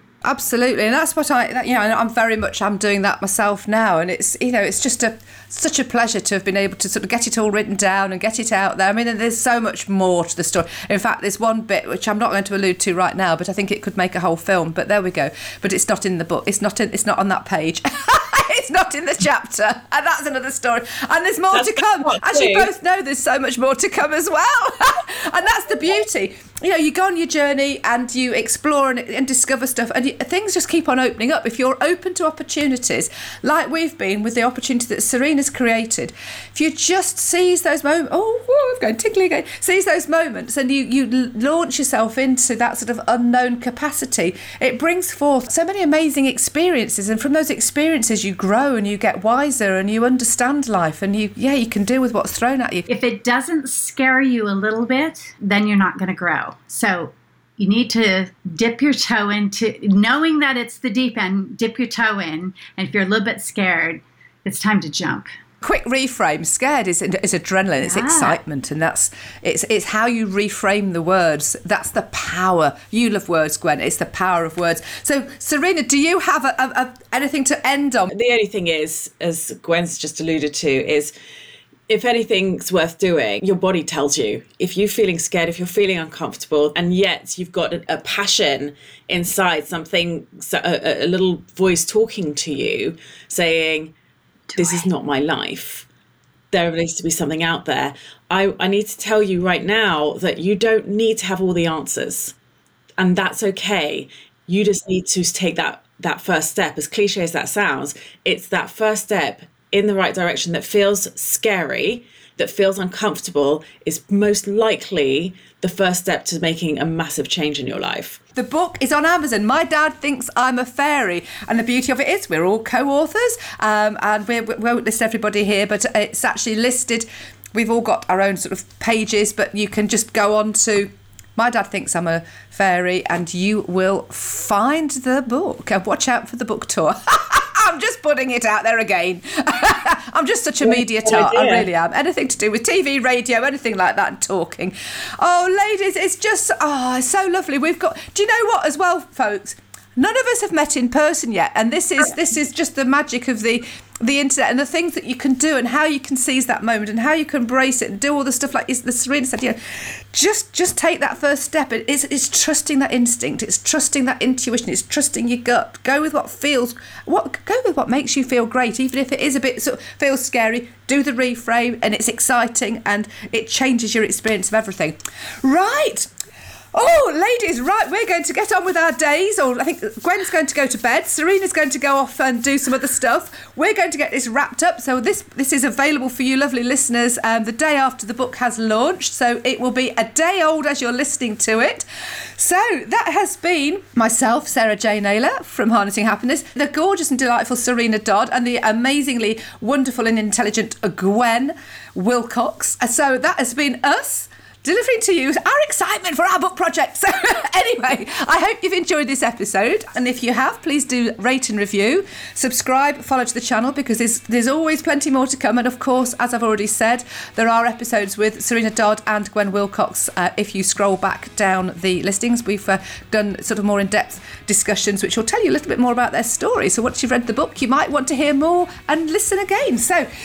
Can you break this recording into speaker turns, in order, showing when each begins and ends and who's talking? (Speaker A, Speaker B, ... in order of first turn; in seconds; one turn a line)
Speaker A: 0.2-52.9
Speaker B: 21.5-22.7
Speaker C: 52.9-65.3
Speaker A: 65.6-78.1
Speaker C: 67.8-68.4
Speaker B: 78.1-81.1
Speaker B: 81.9-93.9
Speaker B: 94.5-95.8
Speaker B: 96.5-102.3
Speaker B: 103.0-118.2
Speaker A: 118.3-176.1
Speaker B: 140.6-141.7
Speaker A: 176.7-191.8
Speaker A: 192.4-230.1